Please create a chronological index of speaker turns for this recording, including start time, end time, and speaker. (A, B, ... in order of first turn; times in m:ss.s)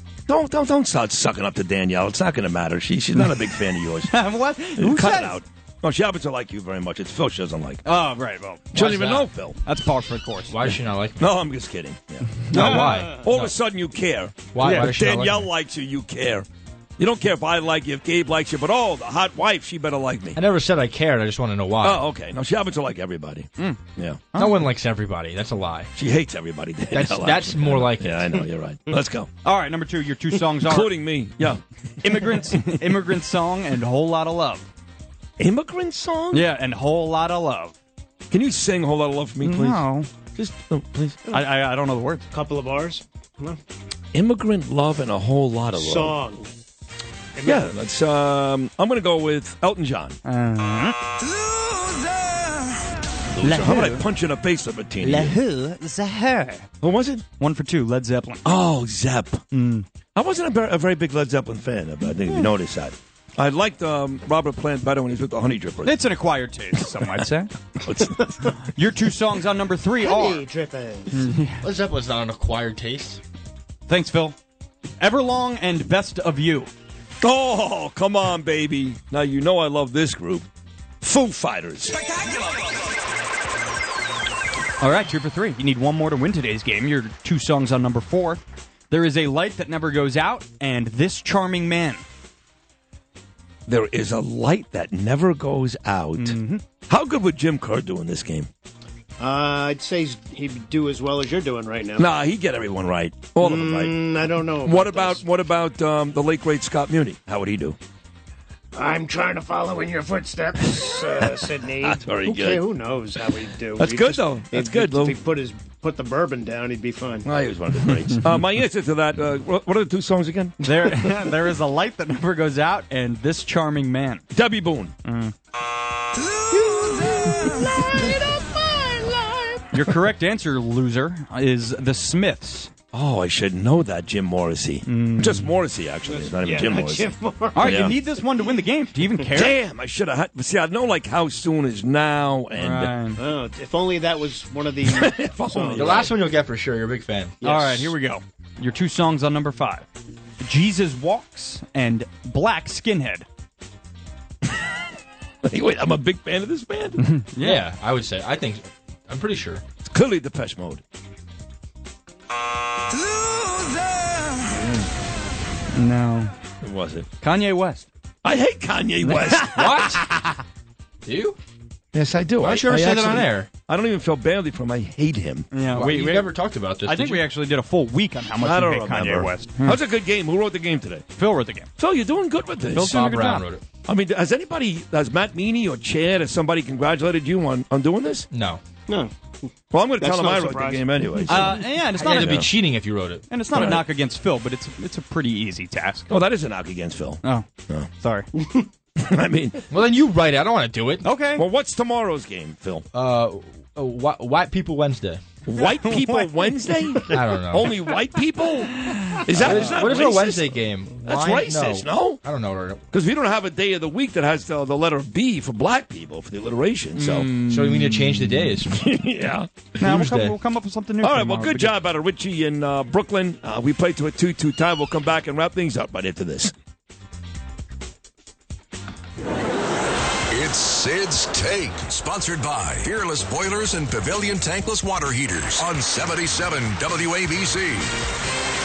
0:00.3-0:04.1 A
0:04.1-0:05.4 B
0:04.8-0:07.8 A
0:07.8-0:09.0 B
0:08.7-0:09.6 A
0:08.8-0:09.2 C
0:09.6-0:10.6 B
0:10.5-0:11.3 C
0:11.2-0:16.5 A
0:12.5-0:13.5 C
0:14.5-0:15.5 C
0:14.6-0:14.9 B
0:17.0-0:20.4 A
0:20.4-0:22.0 C
0:21.8-0:24.3 A
0:24.3-0:24.7 B
0:24.4-0:25.9 C
0:26.0-0:29.3 A
0:26.9-0:28.4 C
0:29.4-0:31.0 B
0:30.6-0:32.6 A
0:32.0-0:34.7 B
0:35.4-0:36.5 A
0:36.3-0:37.8 B
0:38.3-0:39.8 A
0:39.4-0:40.1 B
0:40.4-0:41.2 A
0:41.3-0:42.3 B
0:42.3-0:43.6 D
0:44.1-0:46.2 A
0:45.8-0:46.5 D
0:47.4-0:47.6 D
0:47.4-0:50.2 A
0:50.2-0:51.0 B
0:53.3-0:55.4 A
0:53.4-0:54.0 B
0:55.0-0:56.7 B
0:56.8-0:57.2 A
0:57.4-0:58.4 B
0:58.4-0:59.4 A
0:59.5-0:59.9 B
1:00.2-1:06.0 A
1:05.8-1:07.5 B
1:07.8-1:08.2 A
1:08.5-1:10.4 B
1:10.0-1:11.3 D
1:11.1-1:11.7 B
1:11.6-1:13.2 C
1:13.9-1:14.4 B
1:15.0-1:16.7 B
1:17.2-1:20.5 A
1:21.0-1:22.0 A
1:24.8-1:32.0 B
1:33.7-1:38.5 A
1:36.2-1:36.6 B
1:39.2-1:42.1 D
1:42.0-1:44.1 A
1:43.4-1:45.2 D
1:44.6-1:47.8 A
1:48.7-1:57.3 D
1:51.8-1:52.6 A
1:53.8-1:55.2 A
1:57.2-2:00.6 A
2:00.6-2:04.2 B
2:04.3-2:05.0 A
2:05.0-2:05.3 B
2:06.7-2:09.6 D
2:09.7-2:12.7 B
2:12.9-2:17.1 A
2:14.9-2:15.5 B
2:16.1-2:17.7 D
2:17.5-2:19.6 B
2:17.6-2:18.0 A
2:19.3-2:22.9 A
2:22.6-2:23.2 B
2:23.2-2:25.9 D
2:24.9-2:26.2 A
2:25.7-2:27.4 C
2:27.4-2:28.0 D
2:27.4-2:29.9 B
2:30.4-2:33.3 B
2:35.4-2:37.0 A
2:37.0-2:37.7 B
2:37.4-2:39.6 C
2:39.8-2:40.8 A
2:45.7-2:46.3 B
2:46.6-2:47.1 A
2:47.2-2:47.9 B
2:48.2-2:50.1 A
2:49.0-2:50.1 C
2:51.0-2:51.4 C
2:51.9-2:55.5 A
2:52.4-2:53.5 C
2:55.5-2:59.8 B
2:55.7-2:57.2 C
2:58.4-3:01.0 A
3:01.2-3:01.7 B
3:01.8-3:03.0 A
3:02.7-3:03.5 B
3:02.7-3:03.6 C
3:03.8-3:08.3 A
3:08.3-3:08.6 C
3:09.7-3:12.5 A
3:10.0-3:11.2 D
3:11.3-3:12.5 B
3:12.0-3:13.2 C
3:13.3-3:16.1 B
3:13.5-3:13.8 A
3:16.1-3:17.9 A
3:17.2-3:18.3 B
3:19.0-3:19.6 A
3:19.7-3:21.0 C
3:21.0-3:21.5 B
3:21.3-3:22.9 A
3:22.9-3:25.2 C
3:25.5-3:32.2 A
3:25.8-3:27.1 B
3:27.1-3:27.7 C
3:28.9-3:29.2 B
3:29.4-3:32.8 C
3:32.9-3:37.3 A
3:37.0-3:38.4 B
3:37.4-3:38.8 C
3:38.6-3:39.7 A
3:39.8-3:41.8 B
3:39.9-3:40.4 C
3:41.0-3:46.5 A
3:50.3-3:57.9 E